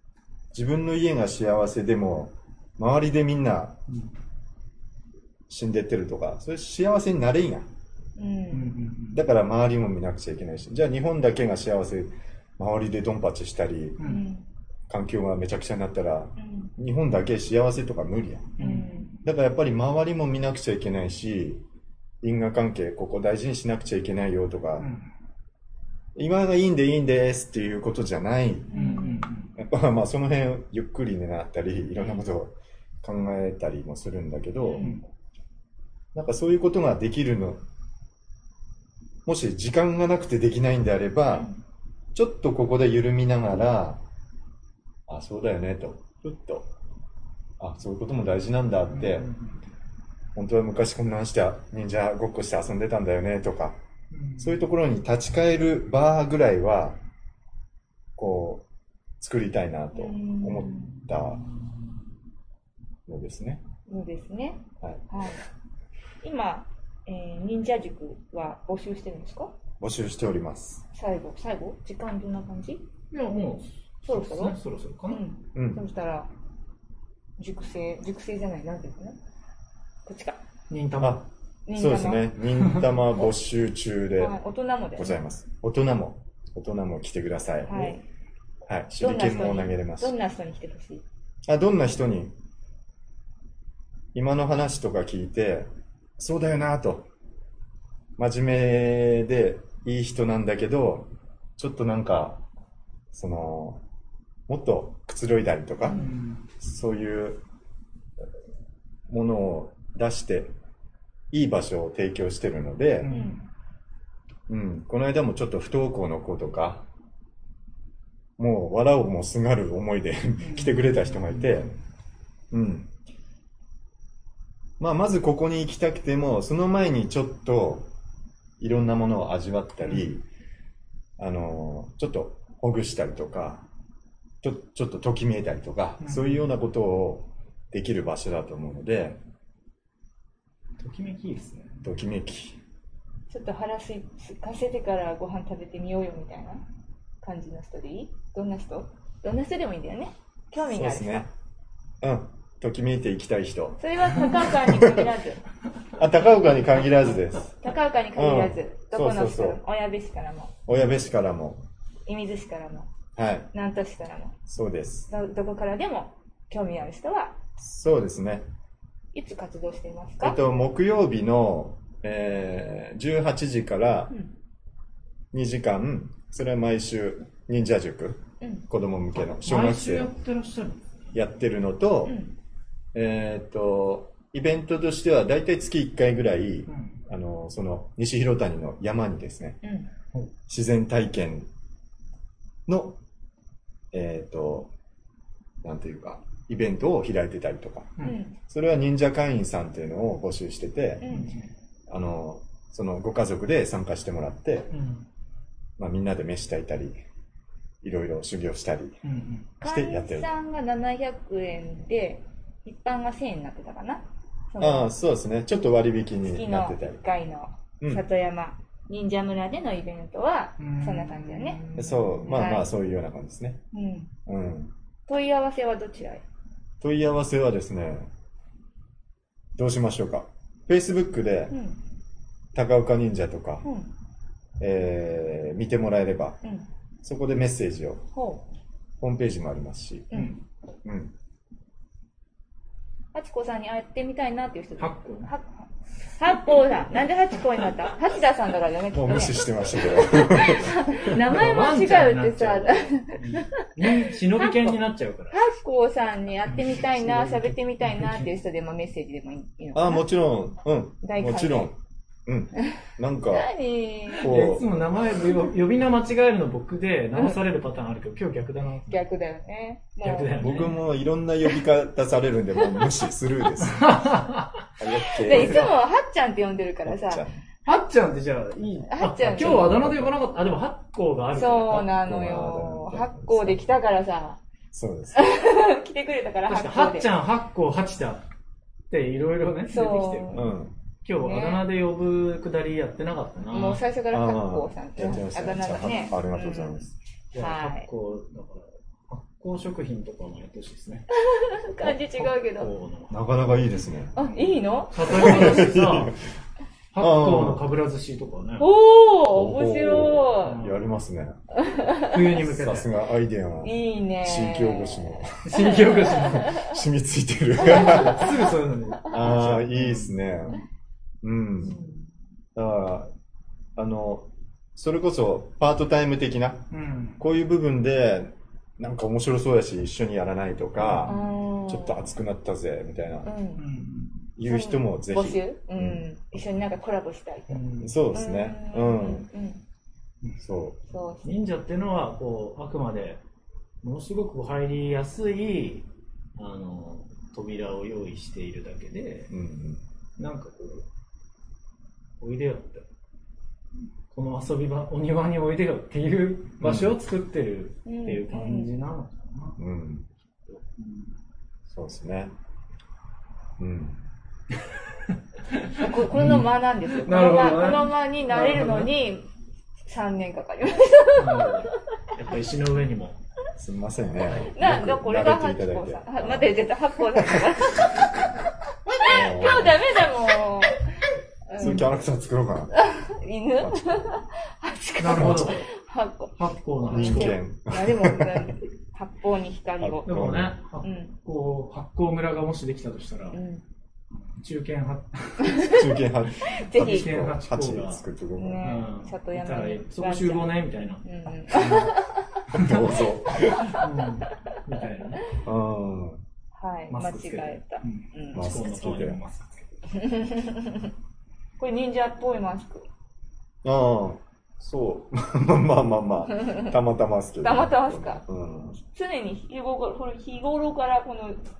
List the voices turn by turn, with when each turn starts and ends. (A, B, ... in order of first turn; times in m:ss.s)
0:00.5-0:03.8 A
0:05.5-0:07.7 A
0:08.2-0:08.7 B
0:08.5-0:09.2 C
0:09.1-0:14.0 A
0:14.0-0:14.2 C
0:14.0-0:14.4 B
0:14.9-0:18.6 A
0:16.4-0:16.7 B
0:18.6-0:19.2 C
0:18.6-0:19.1 B
0:19.2-0:21.6 A
0:22.2-0:24.9 A
0:24.8-0:25.1 C
0:26.1-0:28.8 A
0:28.7-0:29.3 B
0:28.7-0:29.5 C
0:29.6-0:35.0 A
0:32.0-0:32.2 C
0:34.6-0:35.0 B
0:34.8-0:35.0 C
0:36.1-0:37.6 A
0:39.2-0:41.5 A
0:41.3-0:41.6 B
0:42.1-0:44.0 A
0:45.1-0:46.7 A
0:47.6-0:49.3 A
0:48.9-0:49.6 C
0:50.3-0:53.8 A
0:54.1-0:54.6 C
0:54.4-0:57.0 A
0:58.2-0:58.6 A
0:59.2-1:01.4 A
0:59.9-1:01.0 B
1:00.6-1:01.8 C
1:03.0-1:03.6 A
1:03.9-1:05.4 B
1:06.2-1:09.5 B
1:09.8-1:10.8 A
1:10.9-1:12.8 B
1:13.1-1:15.2 C
1:14.1-1:14.6 B
1:15.1-1:16.3 B
1:15.5-1:15.8 A
1:17.4-1:19.2 B
1:20.0-1:20.4 B
1:20.7-1:21.2 C
1:21.0-1:24.4 A
1:21.7-1:22.3 B
1:22.6-1:22.9 C
1:24.2-1:25.2 B
1:25.0-1:28.0 A
1:27.6-1:28.0 B
1:28.6-1:30.1 A
1:29.0-1:31.0 B
1:31.4-1:32.3 A
1:34.1-1:37.1 A
1:38.2-1:42.4 A
1:43.1-1:43.8 A
1:44.5-1:47.4 A
1:45.8-1:46.4 C
1:49.1-1:50.5 A
1:51.3-1:53.1 A
1:53.0-1:53.4 C
1:53.1-1:53.4 B
1:54.5-1:56.9 A
1:58.4-2:01.8 A
2:00.4-2:01.6 C
2:02.5-2:02.9 A
2:04.8-2:07.9 A
2:08.6-2:10.2 A
2:11.2-2:13.6 A
2:14.4-2:19.2 A
2:16.0-2:16.5 C
2:20.8-2:21.8 C
2:21.8-2:22.6 A
2:23.3-2:26.6 B
2:27.2-2:31.3 B
2:30.6-2:31.3 A
2:32.0-2:35.0 A
2:33.8-2:35.4 B
2:36.0-2:37.6 A
2:37.6-2:40.5 B
2:38.1-2:39.6 A
2:40.7-2:41.6 A
2:42.1-2:42.9 B
2:43.2-2:43.5 A
2:43.5-2:44.4 B
2:44.5-2:45.1 A
2:45.1-2:47.4 B
2:47.6-2:48.4 A
2:49.1-2:50.4 B
2:50.2-2:54.1 A
2:55.3-3:00.1 A
2:58.4-2:58.6 B
2:59.4-3:01.0 C
3:01.1-3:02.2 A
3:02.0-3:02.3 B
3:02.9-3:09.6 A
3:06.7-3:07.0 C
3:09.6-3:09.9 B
3:10.5-3:11.5 A
3:12.7-3:13.0 A
3:13.9-3:14.7 A
3:15.6-3:21.1 A
3:18.0-3:18.4 B
3:21.0-3:21.4 B
3:21.1-3:21.5 C
3:21.9-3:24.7 A
3:24.7-3:25.0 C
3:25.8-3:26.9 A
3:27.8-3:29.0 A
3:29.0-3:29.5 C
3:29.6-3:30.3 A
3:29.6-3:34.9 B
3:34.6-3:37.0 A
3:36.2-3:41.6 B
3:40.6-3:42.3 C
3:41.8-3:43.6 A
3:42.3-3:42.7 B
3:43.7-3:44.1 B
3:44.2-3:44.7 A
3:45.1-3:46.2 B
3:46.8-3:48.1 A
3:49.5-3:51.5 A
3:51.5-3:51.8 B
3:52.5-3:53.6 A
3:53.6-3:53.9 B
3:54.6-3:56.4 A
3:57.0-3:58.0 A
3:58.1-3:58.4 B
3:59.0-4:00.1 A
4:00.1-4:00.4 B
4:00.1-4:00.4 C
4:00.8-4:01.1 A
4:03.1-4:14.7 B
4:04.8-4:05.3 C
4:08.9-4:11.2 A
4:11.0-4:15.4 C
4:15.3-4:20.0 B
4:16.5-4:18.2 C
4:19.7-4:23.5 A
4:21.0-4:21.7 B
4:23.3-4:24.3 B
4:24.2-4:29.0 C
4:24.2-4:24.8 A
4:28.9-4:30.5 B
4:30.0-4:30.8 C
4:30.4-4:33.9 A
4:33.6-4:34.7 C
4:34.8-4:35.7 A
4:35.0-4:37.2 B
4:35.2-4:35.7 C
4:36.8-4:37.4 A
4:37.6-4:42.0 C
4:38.9-4:39.7 B
4:39.4-4:40.1 A
4:41.3-4:44.4 B
4:42.0-4:43.6 A
4:44.7-4:45.3 A
4:45.1-4:47.1 B
4:46.5-4:48.2 C
4:48.9-4:50.5 C
4:49.7-4:50.5 B
4:50.3-4:50.7 A
4:51.0-4:53.8 C
4:51.2-4:51.6 B
4:53.5-4:56.8 B
4:54.1-4:56.9 A
4:57.3-5:01.1 C
4:57.4-4:57.9 B
5:01.2-5:02.7 B
5:01.8-5:06.1 C
5:03.1-5:04.1 A
5:04.2-5:05.7 B
5:05.1-5:06.3 A
5:06.9-5:08.7 C
5:07.0-5:07.7 A
5:08.6-5:10.6 B
5:09.3-5:11.4 A
5:10.4-5:10.8 C
5:11.6-5:12.3 B
5:12.1-5:12.9 C
5:12.4-5:15.5 A
5:13.6-5:16.7 B
5:15.4-5:16.6 C
5:16.4-5:18.3 A
5:17.6-5:20.1 C
5:17.7-5:18.3 B
5:19.1-5:20.6 A
5:21.2-5:21.8 A
5:21.6-5:22.0 B
5:22.5-5:23.1 A
5:23.8-5:33.3 A
5:26.7-5:27.2 C
5:30.8-5:31.2 C
5:31.1-5:32.1 B
5:33.2-5:33.6 B
5:33.6-5:34.3 C
5:34.4-5:36.0 A
5:34.4-5:39.6 B
5:37.5-5:38.0 C
5:37.8-5:39.3 A
5:40.4-5:40.8 A
5:40.9-5:41.3 B
5:41.2-5:43.2 C
5:43.8-5:49.3 C
5:49.3-5:49.8 A
5:50.2-5:50.8 C
5:52.2-5:52.8 C
5:54.1-5:59.6 C
5:56.6-5:56.9 A
5:57.8-5:58.7 B
5:59.6-6:00.1 A
6:00.4-6:01.1 C
6:01.7-6:02.3 A
6:03.6-6:04.0 A
6:05.1-6:08.9 C
6:05.8-6:09.2 B
6:09.8-6:11.8 B
6:11.1-6:13.2 C
6:13.6-6:17.5 A
6:14.2-6:14.5 C
6:14.4-6:18.1 B
6:18.9-6:21.8 B
6:19.0-6:19.9 A
6:21.6-6:22.7 A
6:22.8-6:26.3 B
6:23.6-6:24.1 A
6:25.0-6:25.6 C
6:25.2-6:25.6 A
6:26.4-6:27.4 C
6:26.9-6:28.5 A
6:26.9-6:30.1 B
6:29.8-6:30.6 A
6:30.0-6:33.4 C
6:30.8-6:31.1 B
6:33.3-6:33.6 B
6:34.2-6:35.7 C
6:35.4-6:35.9 B
6:35.6-6:38.7 A
6:36.4-6:37.1 B
6:36.8-6:38.0 C
6:38.4-6:42.3 B
6:38.6-6:42.9 C
6:42.5-6:43.7 A
6:43.6-6:45.2 C
6:45.4-6:46.2 A
6:46.5-6:48.4 B
6:46.9-6:49.9 C
6:48.3-6:49.2 A
6:49.9-6:50.9 B
6:51.6-6:52.8 B
6:53.6-6:58.8 A
6:56.4-6:56.7 B
6:57.4-6:58.2 B
6:58.9-7:01.4 B